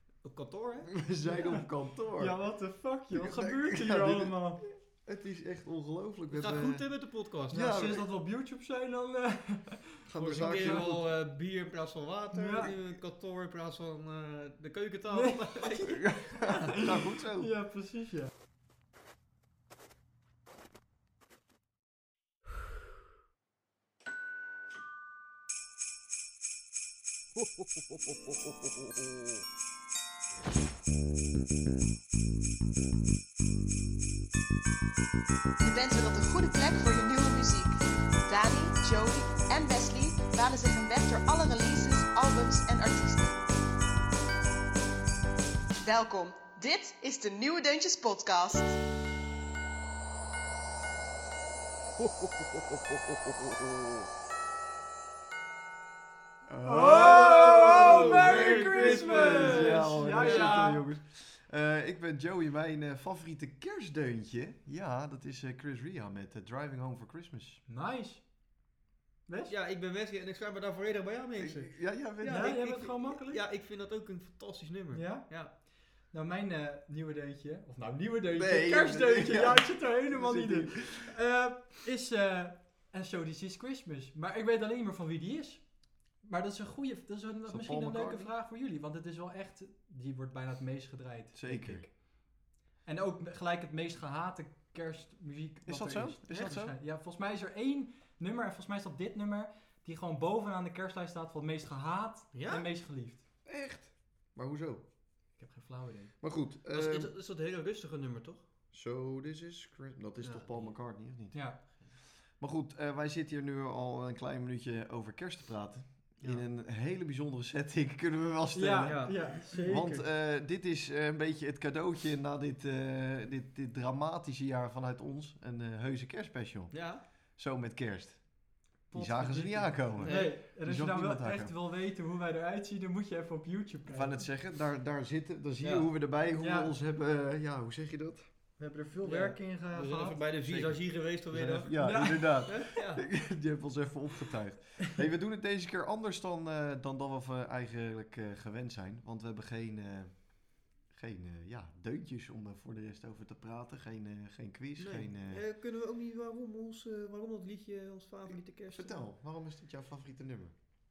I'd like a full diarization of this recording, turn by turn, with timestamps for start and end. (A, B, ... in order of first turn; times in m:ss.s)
0:00.2-0:01.0 A
0:00.9-0:02.4 B
0:01.3-0:01.6 C
0:02.2-0:04.6 C
0:03.1-0:06.9 B
0:06.3-0:07.6 A
0:07.5-0:08.1 B
0:07.5-0:10.9 C
0:10.0-0:11.1 B
0:10.2-0:16.2 A
0:12.3-0:12.7 C
0:15.1-0:18.3 C
0:16.0-0:17.5 B
0:35.6-0:43.5 D
0:45.8-0:48.8 D
0:56.5-1:07.6 B
0:56.6-1:00.8 C
0:56.9-1:00.8 A
1:07.7-1:08.2 C
1:09.3-1:09.5 C
1:09.4-1:15.5 A
1:11.4-1:12.5 B
1:12.2-1:13.4 C
1:14.9-1:43.2 C
1:18.3-1:21.1 B
1:27.5-1:28.3 B
1:31.3-1:31.9 B
1:35.6-1:36.8 B
1:42.3-1:42.7 A
1:43.4-1:44.8 B
1:45.4-1:46.1 C
1:46.2-1:47.1 B
1:46.7-1:48.4 A
1:48.7-2:11.5 B
1:50.2-1:51.0 A
1:51.3-1:51.6 C
1:58.5-2:00.0 C
1:58.8-1:59.6 A
2:06.7-2:07.0 A
2:08.9-2:14.2 C
2:10.0-2:10.4 A
2:13.9-2:18.3 B
2:15.6-2:15.9 A
2:16.4-2:16.7 C
2:18.6-2:20.7 C
2:19.0-2:22.0 A
2:20.5-2:35.4 B
2:21.8-2:22.5 C
2:22.5-2:23.1 A
2:34.8-2:39.0 A
2:38.7-2:40.5 B